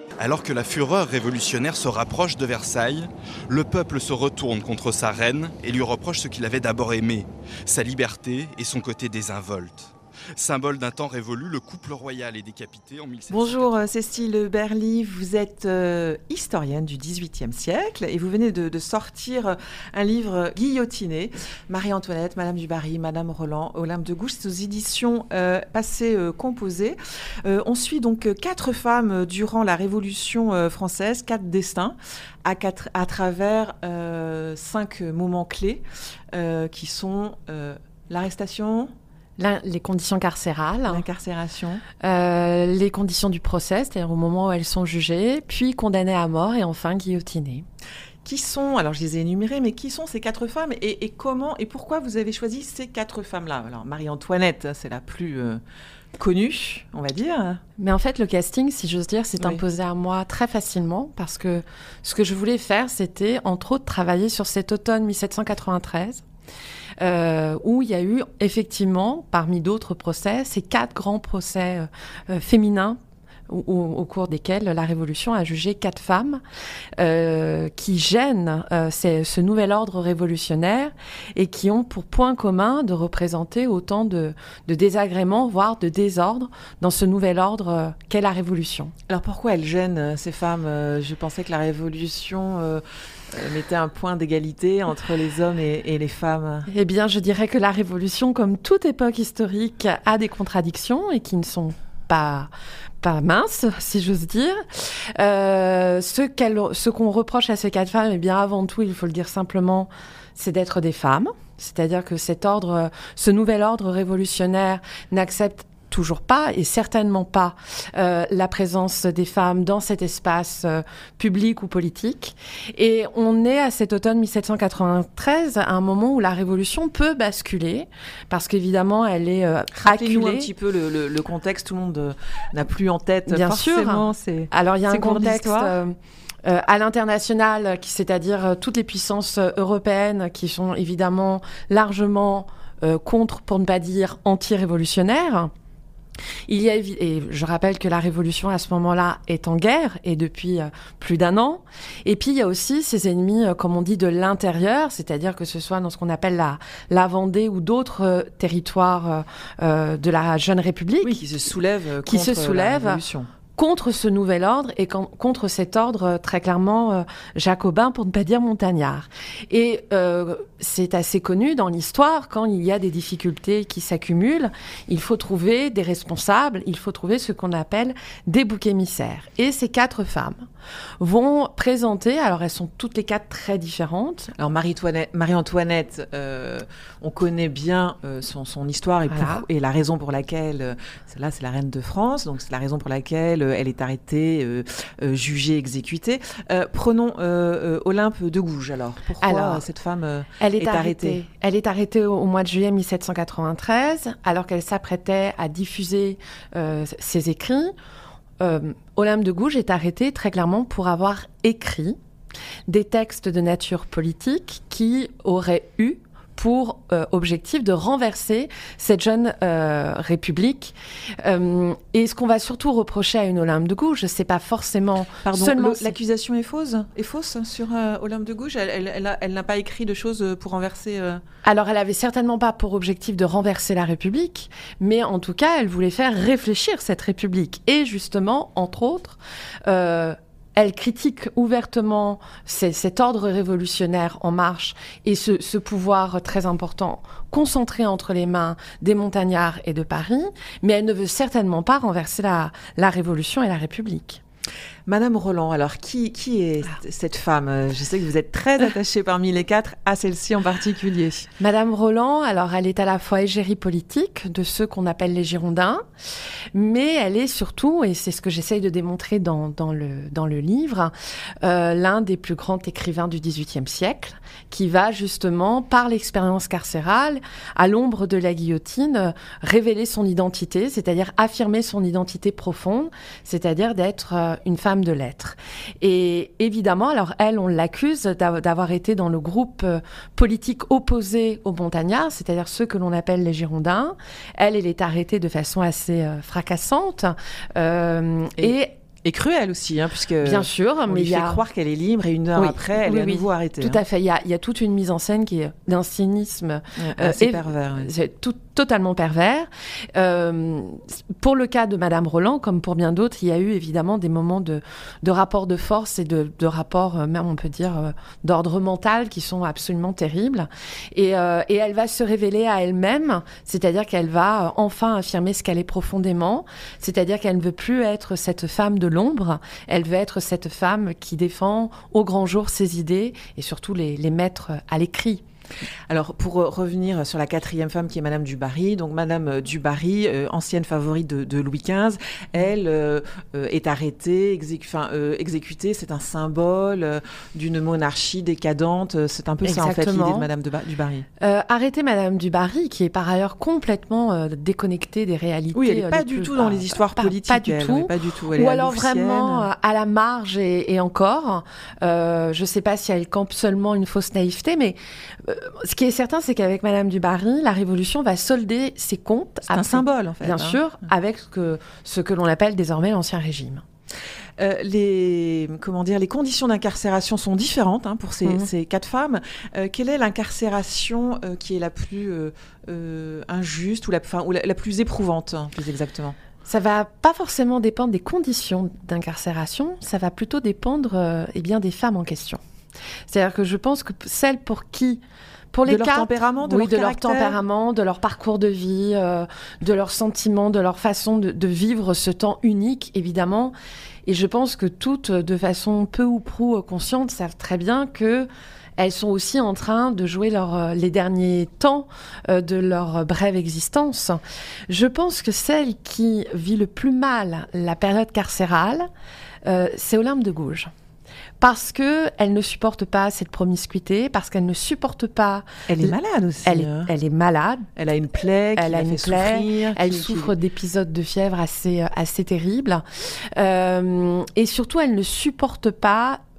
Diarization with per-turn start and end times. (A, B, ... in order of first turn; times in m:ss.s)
0:00.2-0:13.8 A
0:13.3-0:38.9 B
0:39.4-0:41.0 C
0:40.9-0:41.8 B
0:42.0-0:47.6 C
0:48.2-0:55.6 B
0:56.2-0:57.6 B
0:57.8-1:06.2 C
0:59.4-0:59.6 B
1:07.0-1:16.4 C
1:17.0-1:28.9 C
1:29.1-1:36.7 B
1:36.7-1:42.5 C
1:43.0-2:10.5 C
2:09.8-2:15.8 B
2:13.3-2:25.5 C
2:26.5-2:41.2 C
2:41.0-2:43.3 B
2:42.0-2:43.0 C
2:43.5-3:00.5 C
3:01.0-3:04.3 C
3:04.4-3:21.2 B
3:09.1-3:09.4 C
3:19.2-3:19.6 C
3:20.4-3:27.7 C
3:28.4-3:32.0 C
3:32.7-3:46.0 C
3:45.2-3:51.2 B
3:51.4-4:14.2 C
4:14.9-4:21.3 B
4:21.4-4:25.8 C
4:26.5-4:58.7 C
4:58.4-5:03.8 B
5:00.2-5:01.4 C
5:02.4-5:35.2 C
5:06.8-5:07.9 B
5:35.9-5:51.1 B
5:49.4-5:50.3 C
5:51.2-6:13.6 C
5:55.5-5:59.5 B
6:09.5-6:10.6 B
6:14.4-6:26.2 B
6:26.4-6:32.4 C
6:33.1-6:35.0 C
6:35.5-6:43.5 C
6:35.6-6:37.4 B
6:44.0-6:58.9 C
6:59.4-7:00.7 C
7:01.4-7:05.9 C
7:05.7-7:06.9 B
7:06.4-7:07.7 C
7:07.8-7:10.3 B
7:08.6-7:16.2 C